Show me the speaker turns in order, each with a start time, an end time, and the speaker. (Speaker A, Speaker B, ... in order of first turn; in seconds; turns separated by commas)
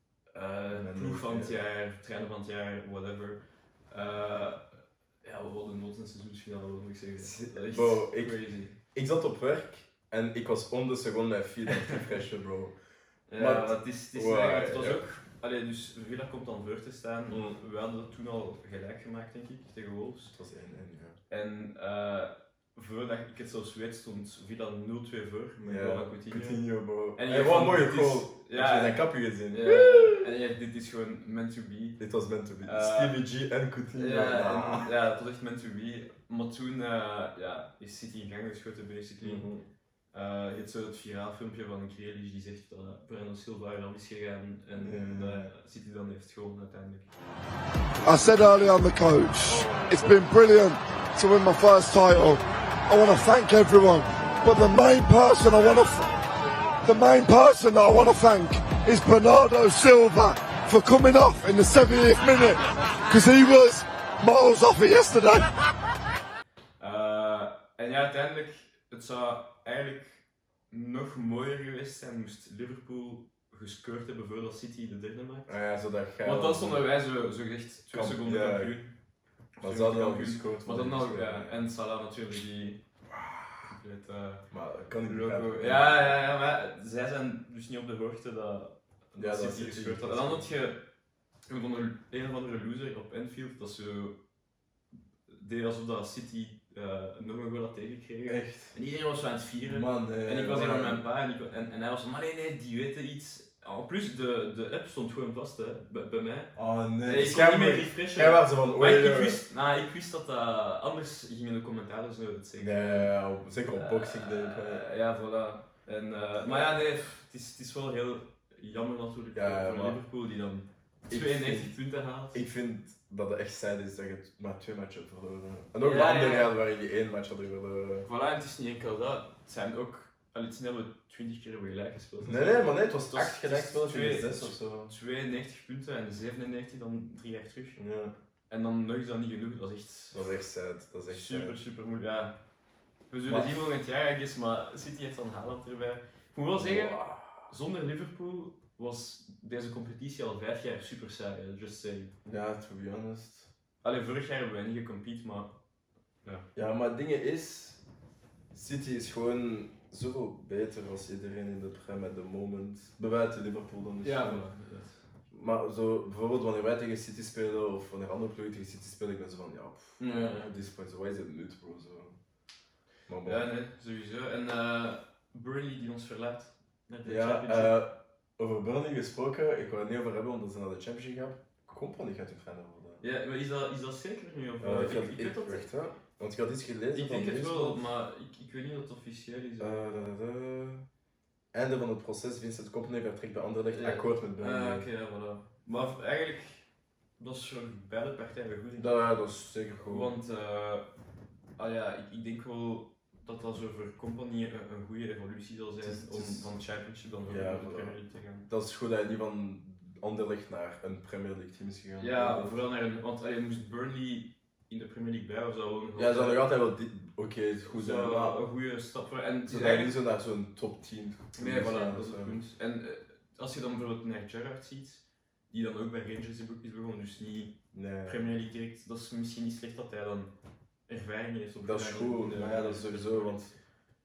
Speaker A: 0.3-4.6, Speaker B: 0.7-1.5, Speaker A: 5.2-8.8, Speaker B: 7.2-12.7, Speaker A: 11.7-12.0, Speaker A: 13.3-20.3, Speaker B: 13.3-15.0, Speaker B: 17.3-17.6, Speaker B: 20.3-21.2, Speaker A: 21.3-26.6, Speaker B: 25.6-30.3, Speaker A: 27.1-32.0, Speaker B: 32.0-34.9, Speaker A: 32.6-33.2, Speaker A: 33.9-39.5, Speaker B: 39.2-39.6, Speaker A: 40.1-47.1, Speaker B: 44.8-45.5, Speaker C: 48.0-56.1, Speaker A: 49.5-49.8, Speaker C: 56.8-65.5, Speaker A: 66.8-75.5, Speaker B: 75.5-76.9, Speaker A: 76.2-78.9, Speaker B: 77.9-78.8, Speaker A: 79.6-82.8, Speaker B: 79.6-81.6, Speaker B: 83.1-83.7, Speaker A: 83.6-84.5, Speaker B: 84.5-86.2, Speaker A: 85.0-90.8, Speaker B: 89.2-90.5, Speaker A: 91.5-94.2, Speaker A: 95.3-113.1, Speaker B: 98.2-98.8, Speaker B: 99.7-101.0, Speaker B: 106.5-109.4, Speaker B: 112.6-114.8, Speaker A: 113.7-122.4, Speaker B: 119.3-120.0, Speaker B: 121.1-121.7, Speaker B: 122.3-128.1, Speaker A: 125.8-126.5, Speaker A: 128.0-137.8, Speaker B: 132.2-134.9, Speaker B: 137.8-138.1, Speaker A: 138.5-140.3, Speaker B: 140.1-141.6, Speaker A: 141.1-142.4, Speaker A: 143.1-152.1, Speaker B: 143.2-143.7, Speaker B: 146.5-147.5, Speaker B: 152.2-153.5, Speaker A: 153.8-155.5, Speaker B: 156.5-157.8, Speaker B: 158.5-164.4, Speaker A: 164.0-165.0, Speaker B: 165.3-172.2, Speaker A: 170.0-170.5, Speaker B: 173.1-173.5, Speaker A: 173.2-177.7, Speaker B: 177.0-183.0, Speaker A: 183.0-185.7, Speaker B: 184.6-187.8, Speaker A: 186.9-189.8, Speaker B: 189.6-190.8, Speaker B: 191.5-194.8, Speaker A: 193.7-196.7, Speaker A: 197.2-198.9, Speaker B: 198.8-200.1, Speaker A: 199.8-200.8, Speaker A: 201.6-208.5, Speaker B: 205.8-206.5, Speaker B: 207.3-208.0, Speaker B: 208.5-212.6, Speaker A: 212.0-216.4, Speaker B: 215.9-218.4, Speaker A: 217.7-219.9, Speaker B: 219.4-222.4, Speaker A: 221.3-230.3, Speaker B: 227.7-228.2, Speaker A: 230.9-233.6, Speaker B: 231.6-233.5